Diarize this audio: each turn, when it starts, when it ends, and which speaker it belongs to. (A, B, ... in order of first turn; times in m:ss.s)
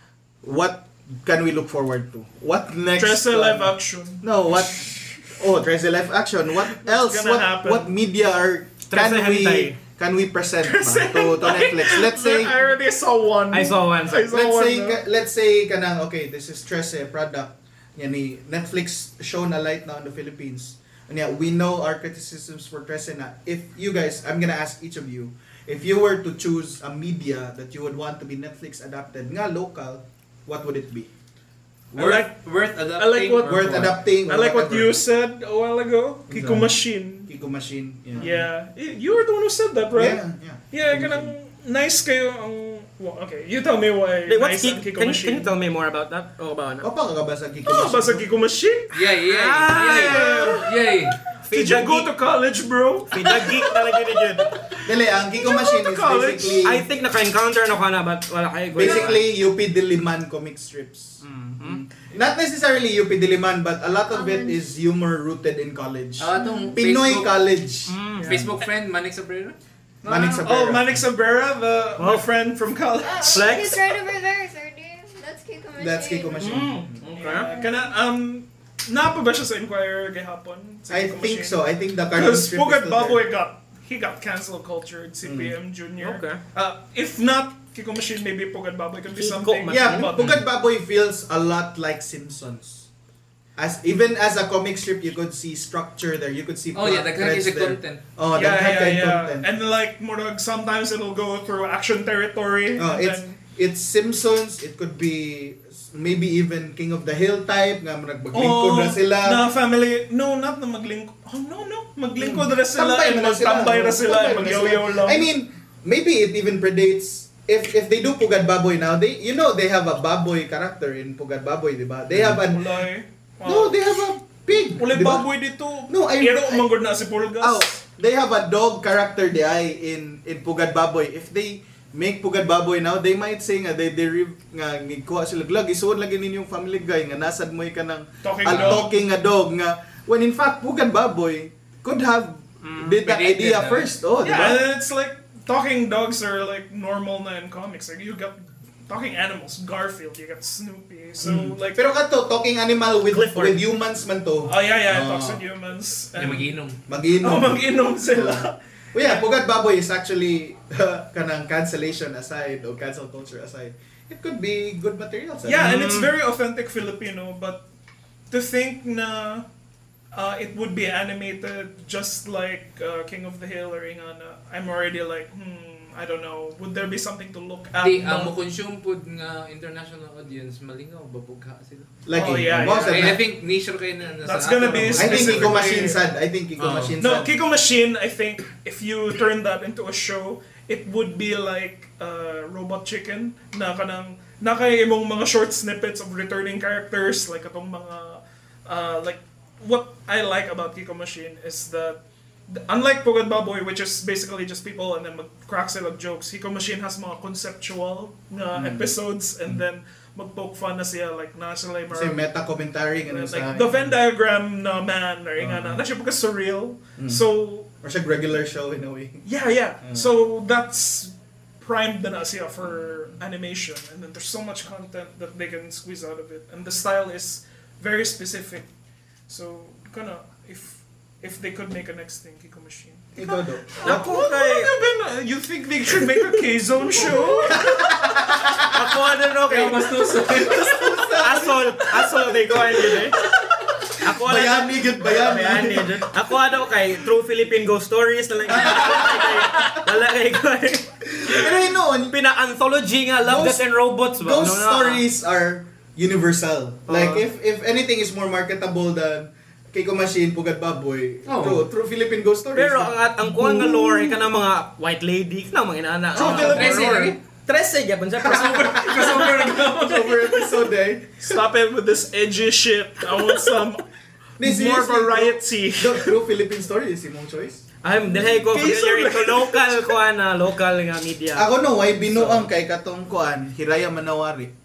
0:00.4-0:12.5 A
0:03.0-0:05.3 B
0:06.7-0:07.9 B
0:08.9-0:09.8 C
0:10.6-0:15.0 B
0:13.5-0:14.3 C
0:14.3-0:31.1 A
0:31.9-0:34.0 D
0:32.0-0:32.3 B
0:32.9-0:37.3 B
0:33.4-0:35.0 A
0:36.3-0:38.5 A
0:38.2-0:45.5 B
0:39.9-0:41.3 A
0:44.3-0:46.9 C
0:46.8-0:48.2 A
0:47.6-0:48.9 B
0:48.9-0:51.2 D
0:49.2-0:50.6 C
0:49.7-0:50.7 B
0:51.4-0:52.1 C
0:51.5-0:56.7 B
0:53.1-0:54.5 C
0:54.8-0:56.8 A
0:56.6-0:59.2 C
0:58.7-1:07.9 A
0:58.8-0:59.2 E
1:01.2-1:01.8 C
1:04.1-1:04.6 E
1:06.2-1:07.3 D
1:06.4-1:06.8 E
1:07.9-1:08.3 C
1:08.2-1:09.6 D
1:10.0-1:11.0 A
1:10.0-1:13.9 B
1:12.0-1:12.2 C
1:13.0-1:17.9 E
1:13.3-1:13.7 C
1:15.8-1:17.0 A
1:16.4-1:17.5 C
1:17.2-1:21.6 B
1:20.9-1:23.2 A
1:22.1-1:30.3 B
1:25.2-1:25.5 A
1:26.0-1:26.4 C
1:29.1-1:30.1 C
1:29.7-1:32.9 A
1:33.6-1:39.4 A
1:36.7-1:38.0 D
1:38.3-1:43.4 B
1:42.8-1:49.4 A
1:48.3-1:55.3 B
1:52.2-2:02.7 A
2:02.3-2:03.9 B
2:03.4-2:05.3 A
2:04.8-2:07.8 B
2:05.9-2:06.7 A
2:07.4-2:24.6 A
2:18.2-2:19.0 B
2:18.5-2:18.8 D
2:22.8-2:23.9 D
2:24.2-2:31.8 B
2:31.2-2:35.4 A
2:33.1-2:33.6 C
2:34.4-2:36.6 B
2:36.2-2:36.8 D
2:36.9-2:45.8 A
2:37.2-2:39.3 B
2:45.4-2:47.6 B
2:45.6-2:46.1 C
2:48.3-2:49.4 B
2:50.1-2:58.3 B
2:57.8-3:01.9 D
3:02.0-3:03.2 A
3:02.1-3:03.2 B
3:02.5-3:05.8 D
3:04.2-3:06.0 B
3:04.9-3:07.3 A
3:06.6-3:07.0 D
3:07.0-3:32.3 B
3:28.5-3:28.9 A
3:31.9-3:33.9 A
3:33.0-3:37.7 B
3:35.4-3:35.8 A
3:37.0-3:37.2 A
3:37.8-3:39.2 A
3:39.2-3:48.6 B
3:49.3-3:57.8 B
3:53.2-3:54.1 A
3:53.8-3:54.7 C
3:57.0-3:57.6 E
3:57.4-3:58.9 A
3:58.6-3:59.9 C
3:59.4-4:01.0 D
4:00.3-4:06.1 A
4:01.1-4:03.2 C
4:04.0-4:11.4 C
4:08.5-4:09.8 A
4:11.1-4:12.1 A
4:12.1-4:15.0 C
4:13.2-4:13.7 A
4:14.2-4:24.2 A
4:16.9-4:17.2 C
4:21.2-4:21.6 D
4:22.5-4:29.1 C
4:26.1-4:27.2 B
4:26.1-4:27.2 D
4:28.2-4:30.1 D
4:28.3-4:31.4 A
4:31.2-4:33.8 B
4:33.2-4:33.6 A
4:34.4-4:37.6 A
4:34.4-4:36.1 B
4:37.8-4:41.4 C
4:38.3-4:40.0 B
4:41.3-4:44.5 A
4:42.1-4:42.4 D